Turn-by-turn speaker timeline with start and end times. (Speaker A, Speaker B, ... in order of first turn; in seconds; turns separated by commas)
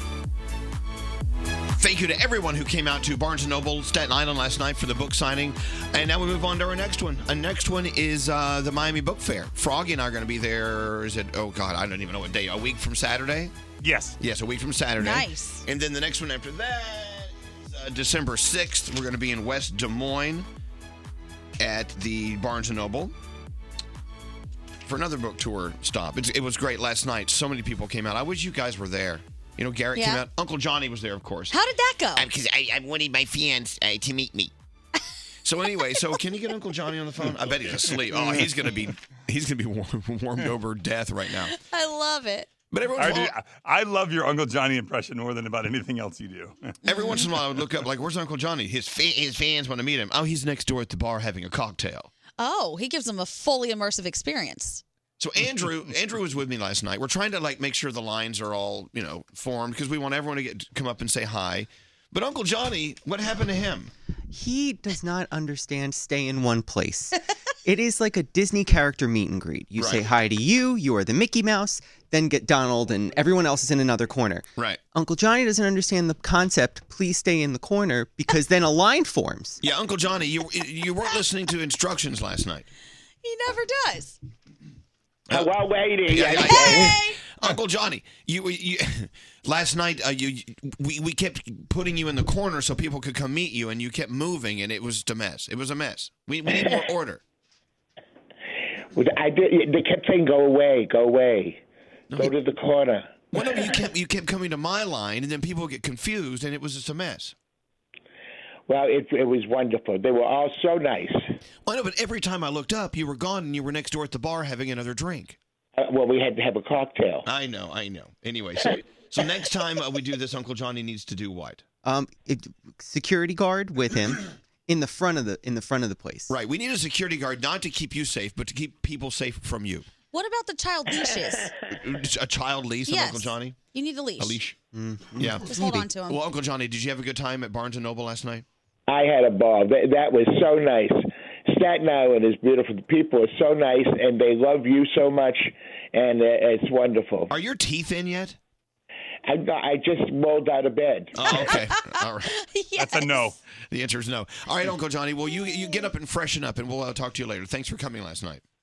Speaker A: 1.8-13.5, Speaker B: 13.8-14.2, Speaker A: 14.2-20.5, Speaker C: 15.0-15.7, Speaker A: 21.6-23.1, Speaker A: 24.9-31.6, Speaker C: 30.0-30.2, Speaker C: 31.5-32.3, Speaker A: 32.1-34.5, Speaker A: 35.4-41.5, Speaker C: 41.5-42.5, Speaker A: 42.7-43.3, Speaker B: 43.0-46.6, Speaker A: 46.9-52.1, Speaker C: 46.9-47.3, Speaker C: 52.4-54.8, Speaker A: 55.2-63.9, Speaker D: 64.3-79.6, Speaker A: 69.8-70.1, Speaker A: 79.6-82.7, Speaker C: 83.2-84.2, Speaker E: 85.3-87.0, Speaker A: 86.1-97.2, Speaker C: 86.3-87.2, Speaker E: 98.9-101.6, Speaker E: 102.2-103.3, Speaker A: 103.3-107.3, Speaker E: 108.7-111.2, Speaker A: 111.7-115.4, Speaker E: 115.8-117.3, Speaker A: 117.2-121.6, Speaker D: 121.8-126.3, Speaker A: 126.3-129.9, Speaker C: 130.1-131.5, Speaker A: 131.7-133.6, Speaker C: 132.9-134.4, Speaker A: 134.2-134.6, Speaker D: 134.7-135.4, Speaker A: 135.2-138.4, Speaker C: 135.5-136.2, Speaker E: 138.9-147.3, Speaker A: 147.3-148.4, Speaker E: 149.3-151.3, Speaker A: 151.2-152.3, Speaker C: 151.2-151.7, Speaker C: 152.3-153.3, Speaker B: 152.8-153.4, Speaker A: 153.7-158.4, Speaker C: 155.4-155.8